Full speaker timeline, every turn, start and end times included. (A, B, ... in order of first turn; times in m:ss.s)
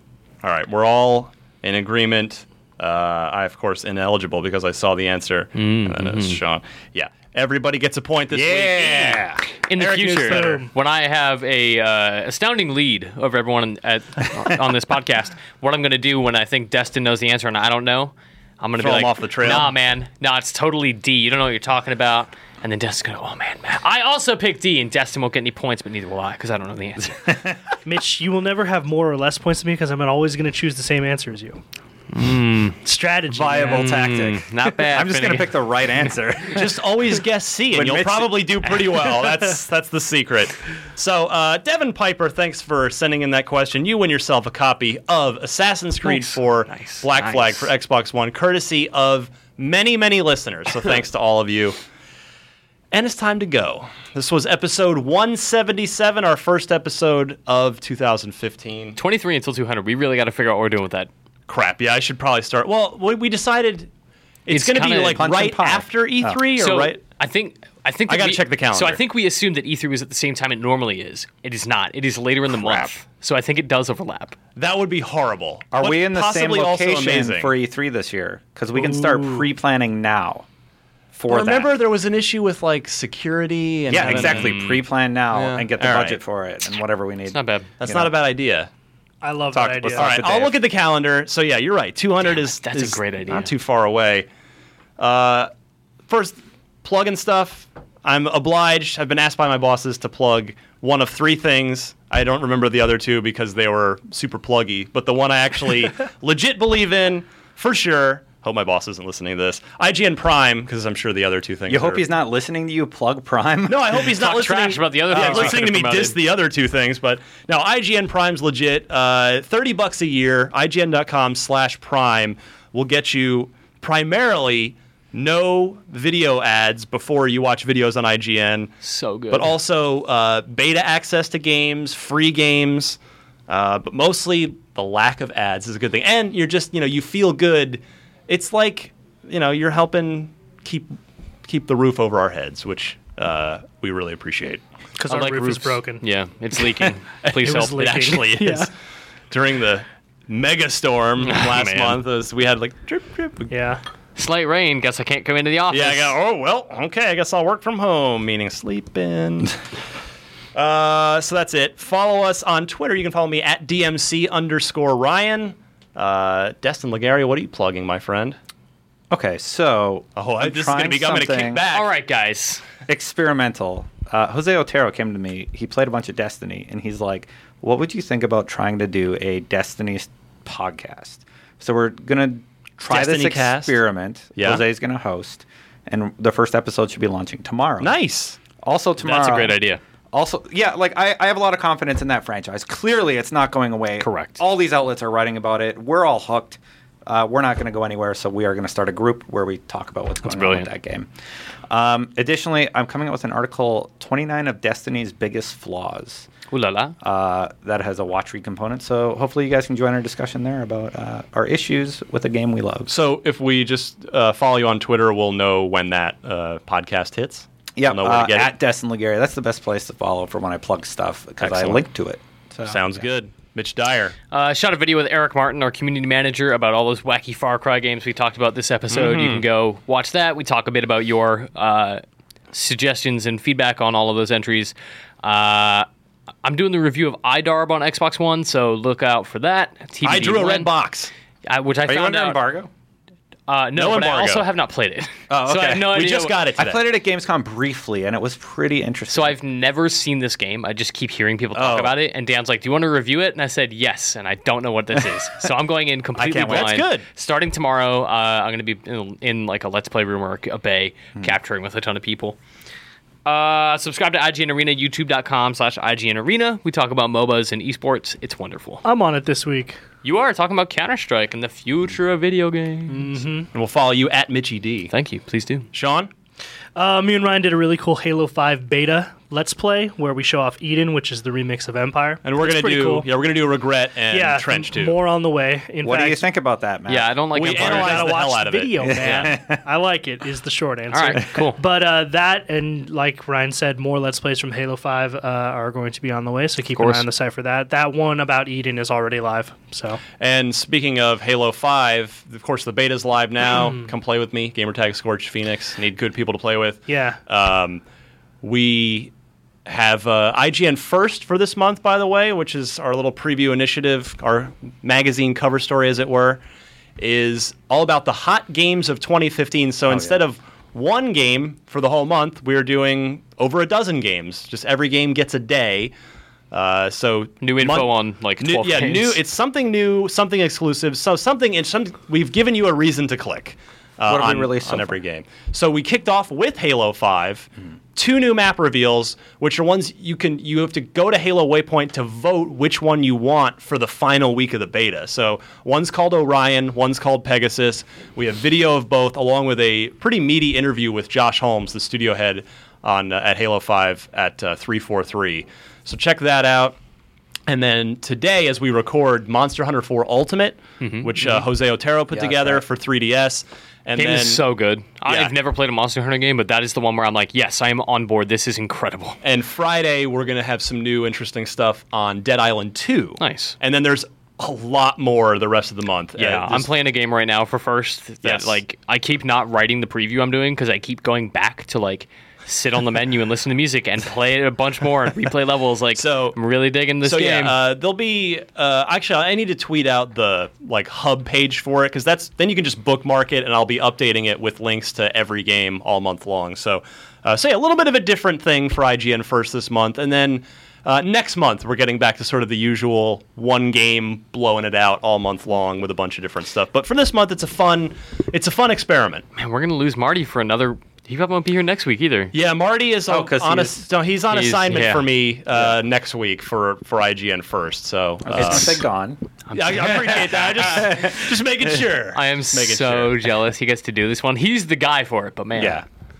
0:00.4-0:10.6 A
0:05.5-0:06.4 B
0:08.3-0:09.4 C
0:09.7-0:27.2 B
0:10.3-0:10.7 D
0:18.8-0:19.7 A
0:27.2-0:27.6 C
0:27.8-0:31.6 D
0:32.1-0:32.8 B
0:32.8-0:34.0 D
0:33.3-0:36.9 C
0:33.6-0:36.1 B
0:36.5-0:51.8 A
0:37.7-0:38.6 C
0:46.0-0:47.7 B
0:52.9-0:59.0 A
0:59.0-1:01.1 B
1:01.5-1:03.9 A
1:04.4-1:07.0 A
1:04.5-1:05.3 B
1:05.1-1:06.4 C
1:06.5-1:14.3 B
1:08.1-1:09.0 A
1:12.5-1:12.9 A
1:14.6-1:17.5 A
1:15.7-1:20.4 C
1:19.1-1:19.4 D
1:21.1-1:21.7 C
1:21.3-1:24.6 A
1:23.9-1:28.1 C
1:24.0-1:24.8 B
1:25.3-1:26.2 A
1:27.3-1:27.8 B
1:27.8-1:28.7 A
1:29.2-1:30.3 D
1:29.5-1:34.3 A
1:29.9-1:30.6 C
1:32.3-1:33.5 B
1:35.0-1:35.5 A
1:36.1-1:52.0 A
1:51.7-1:54.0 C
1:53.7-2:08.8 A
1:54.0-1:56.2 B
2:08.8-2:09.6 B
2:09.3-2:24.6 A
2:25.0-2:26.0 D
2:25.1-2:28.2 B
2:27.2-2:28.7 A
2:27.4-2:28.7 D
2:29.3-2:33.5 A
2:31.2-2:32.0 B
2:33.5-2:33.8 D
2:34.2-2:36.2 B
2:35.7-2:39.5 A
2:40.5-2:48.4 A
2:49.1-2:51.6 C
2:50.2-2:51.9 A
2:51.7-2:52.6 B
2:52.9-3:08.0 C
3:02.8-3:03.8 A
3:04.4-3:04.6 A
3:07.8-3:08.4 A
3:08.6-3:09.6 C
3:09.0-3:09.8 B
3:10.1-3:21.1 C
3:14.0-3:14.4 B
3:20.2-3:20.7 B
3:21.7-3:26.3 C
3:26.5-3:26.9 B
3:27.0-3:32.9 C
3:32.9-3:38.5 A
3:37.8-3:43.0 C
3:41.4-3:41.8 A
3:42.6-3:44.1 A
3:44.3-3:55.9 B
3:48.9-3:49.4 A
3:56.4-4:00.7 B
4:00.0-4:01.1 A
4:01.4-4:02.4 B
4:01.8-4:02.7 C
4:03.5-4:06.5 B
4:03.7-4:04.5 A
4:05.3-4:06.0 C
4:05.8-4:06.8 A
4:06.6-4:09.4 C
4:09.1-4:22.4 B
4:11.5-4:11.9 C
4:16.1-4:16.8 C
4:16.2-4:17.0 A
4:23.2-4:28.8 B
4:28.8-4:29.8 D
4:30.0-4:33.3 B
4:32.9-4:33.5 D
4:33.5-4:34.9 A
4:34.9-4:35.7 B
4:35.7-4:36.1 A
4:36.8-4:43.1 D
4:42.2-4:45.0 A
4:44.1-4:46.3 D
4:45.8-4:48.0 C
4:46.9-4:48.2 B
4:47.3-4:49.0 A
4:47.8-5:00.0 D
4:48.8-4:49.6 C
4:49.0-4:49.2 B
4:50.9-4:51.6 B
4:56.7-4:57.1 B
5:00.2-5:07.8 A
5:03.5-5:03.9 D
5:06.9-5:07.2 D
5:08.4-5:09.1 A
5:09.6-5:16.4 A
5:17.0-5:25.9 A
5:19.9-5:20.2 C
5:26.5-5:56.8 A
5:27.4-5:29.2 B
5:34.1-5:35.0 C
5:57.5-6:04.4 A
6:00.8-6:01.4 B
6:02.1-6:02.6 C
6:04.0-6:09.2 B
6:05.0-6:05.3 A
6:09.2-6:16.7 A
6:13.2-6:13.6 B
6:16.2-6:27.6 B
6:18.2-6:18.6 A
6:25.9-6:26.4 A
6:27.0-6:49.2 A
6:49.3-6:52.3 B
6:52.3-6:58.8 A
6:53.1-6:53.8 C
6:54.3-6:55.1 B
6:55.5-6:55.8 C
6:58.3-6:58.8 B
6:58.3-6:59.2 C
6:59.5-7:00.5 B
6:59.5-7:03.2 A
6:59.7-7:01.3 C
7:02.1-7:05.8 B
7:05.6-7:05.8 C